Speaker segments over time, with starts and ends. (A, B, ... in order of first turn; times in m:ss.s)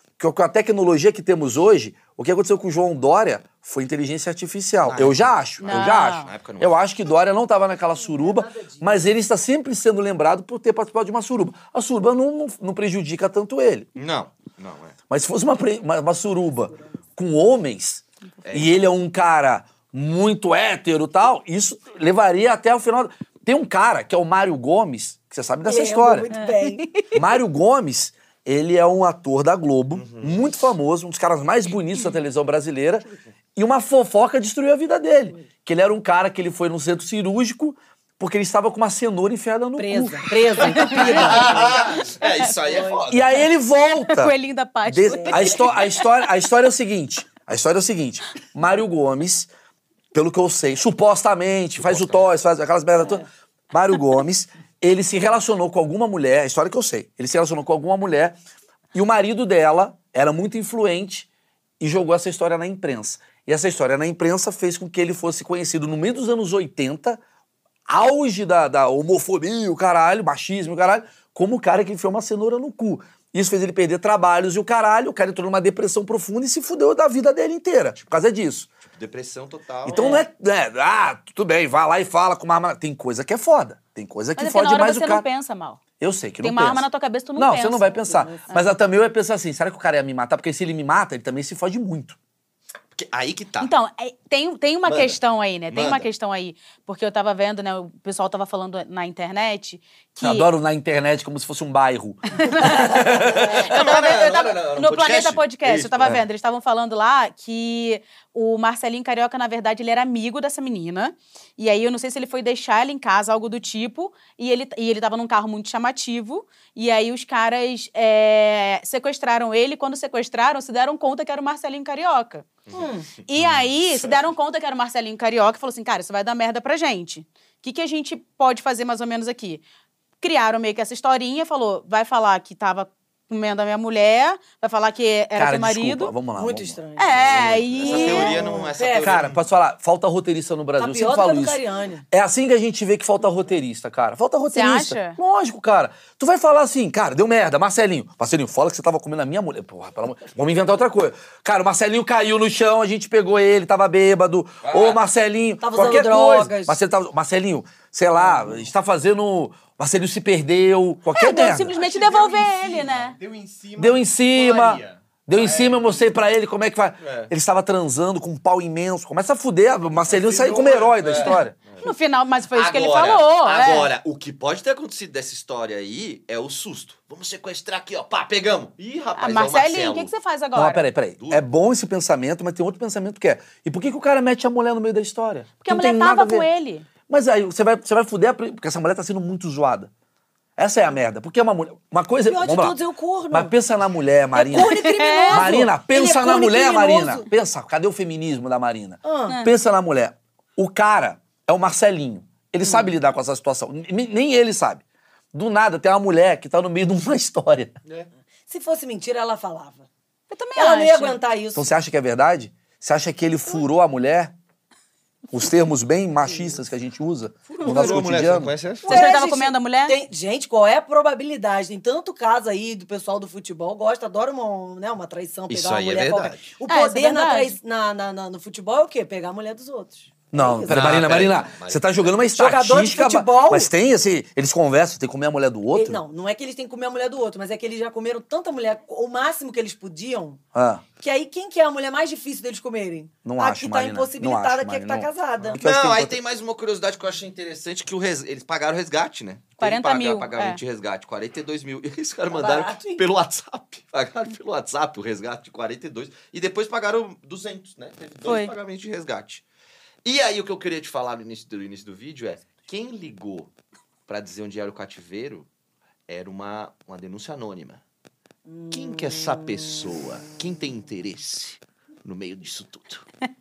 0:00.2-0:13.9 A
0:04.8-0:06.8 B
0:05.6-0:06.3 C
0:07.9-0:09.1 D
0:14.0-0:15.0 B
0:15.1-0:26.3 A
0:16.7-0:16.9 D
0:18.4-0:18.8 B
0:25.6-0:26.9 D
0:26.3-0:27.2 C
0:27.1-0:41.0 A
0:29.9-0:30.5 B
0:39.8-0:43.1 D
0:40.7-0:41.5 C
0:40.8-0:43.4 B
0:42.2-0:42.5 C
0:43.1-0:49.5 A
0:44.1-0:46.0 C
0:45.1-0:45.6 D
0:50.1-0:58.4 A
0:51.8-0:52.2 B
0:58.9-1:01.3 A
1:01.8-1:07.2 A
1:07.9-1:18.7 A
1:18.8-1:20.2 B
1:19.9-1:20.2 D
1:19.9-1:25.3 A
1:24.4-1:25.8 C
1:26.0-1:32.2 A
1:26.4-1:28.7 C
1:28.1-1:28.4 D
1:33.0-1:33.7 B
1:33.6-1:40.5 C
1:34.9-1:35.2 B
1:35.7-1:36.1 B
1:40.2-1:43.7 A
1:42.4-2:02.5 C
1:43.4-1:46.1 B
2:02.7-2:04.2 B
2:02.7-2:03.1 D
2:03.3-2:09.6 C
2:10.2-2:16.2 C
2:15.4-2:18.1 A
2:16.4-2:17.2 D
2:17.0-2:18.4 C
2:17.3-2:19.5 B
2:17.9-2:19.2 D
2:19.0-2:21.6 A
2:20.8-2:22.1 D
2:22.1-2:41.8 A
2:24.5-2:25.2 C
2:34.6-2:35.0 B
2:35.6-2:36.8 D
2:38.2-2:38.7 D
2:41.1-2:43.2 C
2:41.7-2:46.1 E
2:43.8-2:51.6 A
2:47.0-2:47.3 B
2:50.0-2:51.4 E
2:51.0-2:51.9 B
2:51.8-2:53.9 C
2:52.5-3:00.1 B
2:59.2-3:00.8 C
3:00.6-3:06.5 A
3:05.6-3:06.9 C
3:07.1-3:09.9 A
3:10.6-3:12.8 A
3:12.2-3:13.5 D
3:13.3-3:27.8 A
3:14.4-3:17.3 D
3:14.4-3:15.6 C
3:19.0-3:19.4 D
3:22.6-3:22.9 D
3:28.5-3:29.9 D
3:30.3-3:31.2 C
3:30.6-3:31.7 D
3:31.6-3:34.3 A
3:35.3-3:38.5 A
3:36.2-3:36.6 D
3:37.6-3:39.1 B
3:37.6-3:38.0 D
3:38.8-3:51.1 D
3:38.9-3:40.0 C
3:45.5-3:46.6 B
3:46.7-3:47.6 C
3:50.3-3:56.0 A
3:50.7-3:52.2 B
3:52.3-3:53.7 D
3:55.7-4:00.4 D
4:00.5-4:00.8 A
4:01.0-4:05.6 D
4:03.2-4:06.2 A
4:05.6-4:19.4 B
4:09.6-4:10.6 C
4:12.3-4:13.0 D
4:18.2-4:18.5 C
4:20.0-4:23.5 B
4:24.1-4:25.5 B
4:26.1-4:27.8 B
4:28.5-4:30.3 D
4:28.7-4:33.1 B